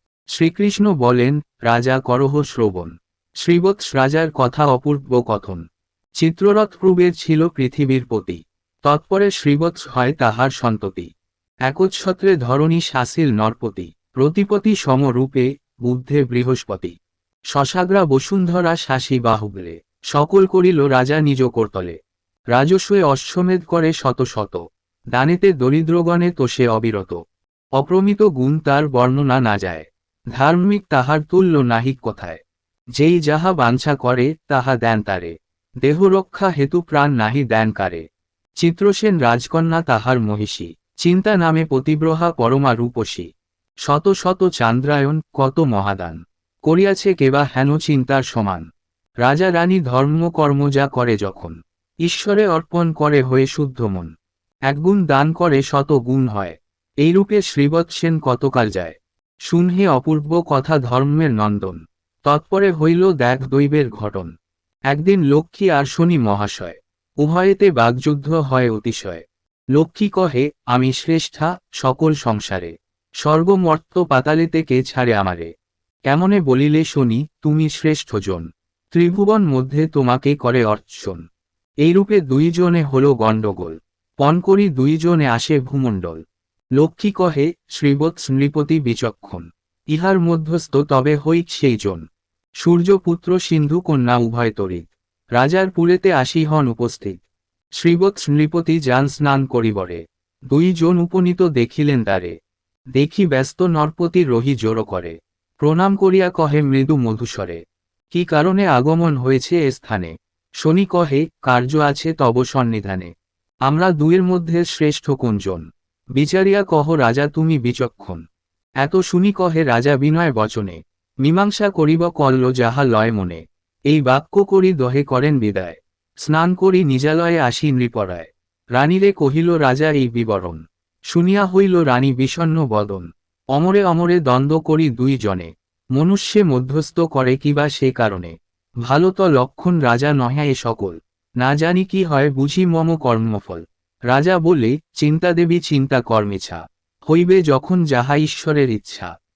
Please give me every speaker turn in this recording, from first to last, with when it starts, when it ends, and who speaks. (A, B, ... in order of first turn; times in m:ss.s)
0:00.3-0:05.6 A
0:06.2-0:11.1 A
0:11.7-0:16.9 A
0:17.5-0:22.0 A
0:22.5-0:24.6 A
0:25.1-0:27.2 A
0:27.8-0:32.4 A
0:33.0-0:38.0 A
0:38.6-0:43.3 A
0:43.8-0:48.6 A
0:49.2-0:54.1 A
0:54.7-0:59.0 A
0:59.5-1:04.3 A
1:04.9-1:09.2 A
1:09.8-1:12.7 A
1:13.2-1:15.5 A
1:16.1-1:21.2 A
1:21.8-1:26.2 A
1:26.8-1:32.0 A
1:32.6-1:37.2 A
1:37.8-1:42.3 A
1:42.9-1:47.6 A
1:48.1-1:53.1 A
1:53.7-1:55.6 A
1:56.2-1:58.2 A
1:58.8-2:10.6 A
2:11.1-2:29.1 A